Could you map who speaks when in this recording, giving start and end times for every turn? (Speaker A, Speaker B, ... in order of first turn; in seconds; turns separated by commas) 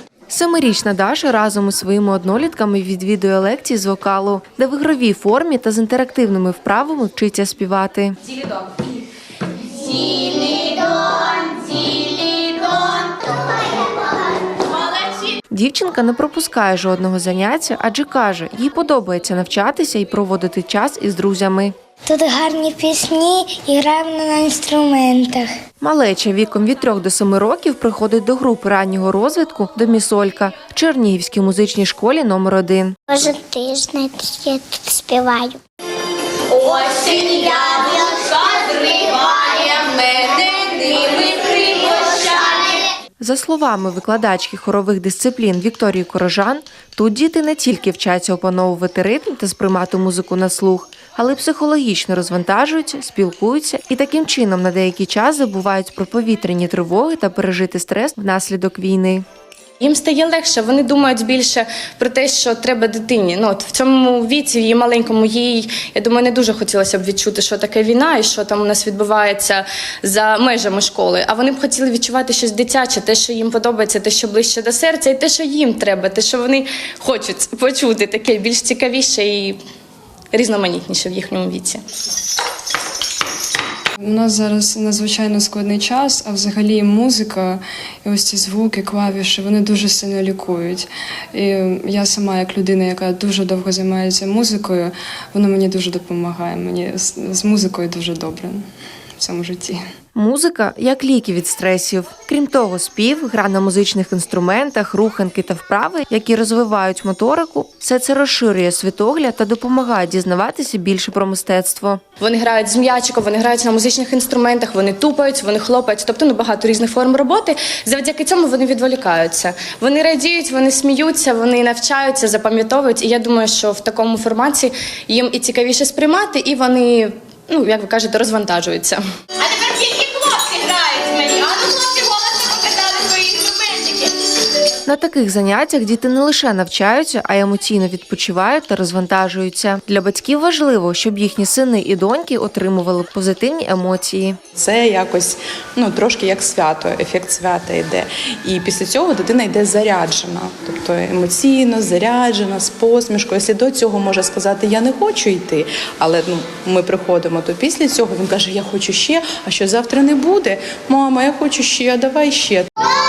Speaker A: 0.3-8.2, Speaker B: 8.4-8.8, Speaker B: 9.7-13.2, Speaker B: 14.6-15.3, Speaker A: 15.5-21.7, Speaker C: 22.1-25.5, Speaker A: 25.8-33.0, Speaker C: 33.1-35.6, Speaker B: 36.5-42.9, Speaker A: 43.2-59.2, Speaker D: 59.8-79.6, Speaker D: 80.3-81.8, Speaker E: 84.0-98.6, Speaker E: 99.2-99.8, Speaker A: 100.2-112.0, Speaker D: 112.2-129.0, Speaker B: 129.4-134.2, Speaker A: 134.9-144.4, Speaker F: 144.6-162.7